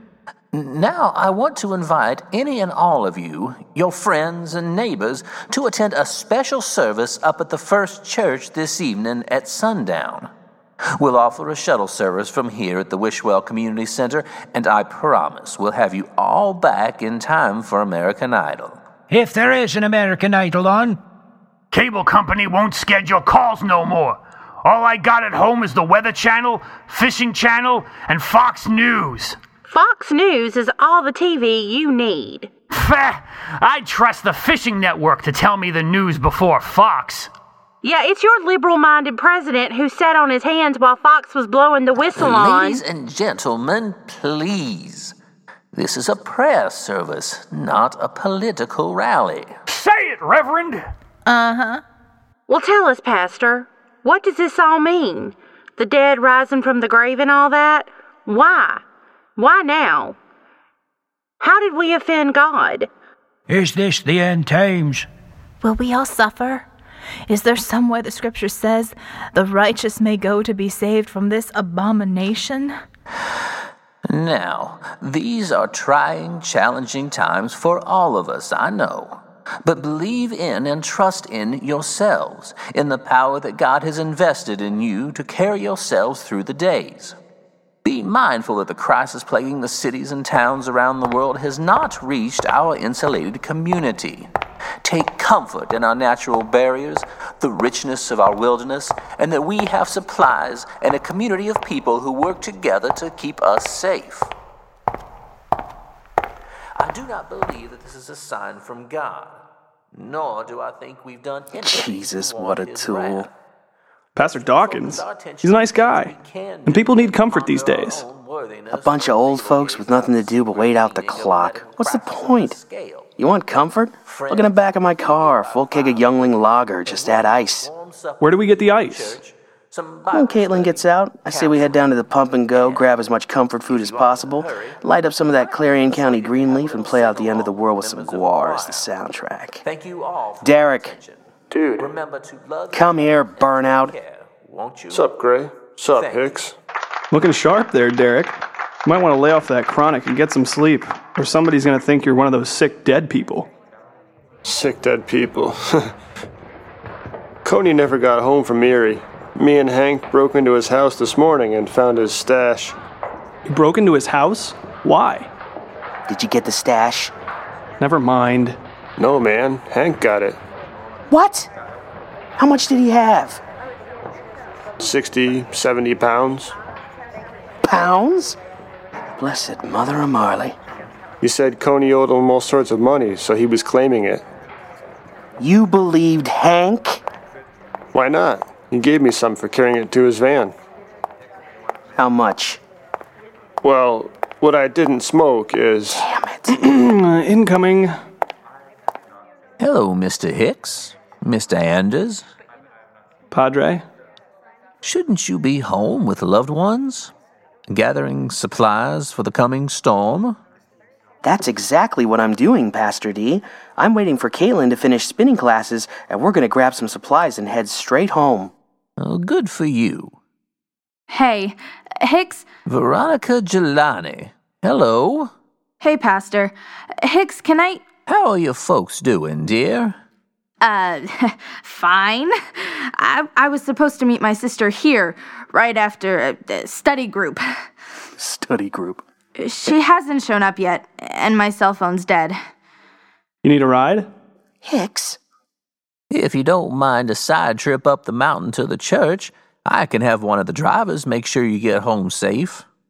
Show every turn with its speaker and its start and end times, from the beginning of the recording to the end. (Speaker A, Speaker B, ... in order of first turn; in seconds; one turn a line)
Speaker A: 0.5-10.3
Speaker A: 10.9-18.8
Speaker B: 19.1-21.0
Speaker C: 21.7-29.4
Speaker D: 29.7-32.5
Speaker C: 32.7-37.3
Speaker D: 37.8-42.8
Speaker A: 42.0-45.1
Speaker A: 45.7-49.6
Speaker C: 49.7-50.8
Speaker E: 51.3-51.8
Speaker D: 52.5-58.8
Speaker D: 59.4-60.2
Speaker D: 61.4-62.9
Speaker B: 63.5-65.1
Speaker E: 65.6-66.7
Speaker E: 67.3-72.8
Speaker A: 74.1-87.2
Speaker A: 87.8-94.3
Speaker A: 94.8-104.3
Speaker A: 106.8-109.4
Speaker A: 109.9-113.3
Speaker F: 111.5-113.3
Speaker G: 114.2-116.1
Speaker A: 114.2-123.1
Speaker G: 116.7-118.0
Speaker F: 118.7-122.6
Speaker F: 123.2-127.7
Speaker A: 124.1-131.9
Speaker G: 128.2-129.2
Speaker F: 130.1-139.6
Speaker A: 132.5-132.9
Speaker A: 133.7-138.9
Speaker A: 139.6-141.2
Speaker F: 140.4-140.9
Speaker H: 141.5-141.9
Speaker A: 141.8-145.1
Speaker F: 142.7-143.9
Speaker H: 144.9-146.5
Speaker A: 145.9-146.4
Speaker G: 147.1-153.5
Speaker H: 154.4-155.9
Speaker H: 157.4-162.8
Speaker G: 163.5-165.3
Speaker F: 166.1-167.1
Speaker G: 167.8-168.6
Speaker H: 169.0-170.4
Speaker F: 171.1-171.5
Speaker F: 172.4-173.4
Speaker H: 174.8-176.5
Speaker F: 177.6-178.4
Speaker F: 179.2-180.6
Speaker H: 181.2-184.2
Speaker F: 185.4-187.0
Speaker H: 187.9-190.5
Speaker F: 192.0-192.6
Speaker H: 193.6-196.0
Speaker F: 195.9-196.6
Speaker G: 196.5-197.9
Speaker A: 199.6-202.2
Speaker G: 203.3-203.8
Speaker A: 204.8-207.1
Speaker A: 207.7-210.4
Speaker F: 211.2-218.5
Speaker A: 219.0-220.2
Speaker I: 221.1-222.4
Speaker A: 222.7-225.3
Speaker I: 225.8-227.8
Speaker A: 228.1-229.9
Speaker I: 230.6-237.4
Speaker F: 238.2-239.0
Speaker I: 239.4-242.4
Speaker G: 243.4-244.1
Speaker F: 244.6-245.2
Speaker A: 246.1-252.7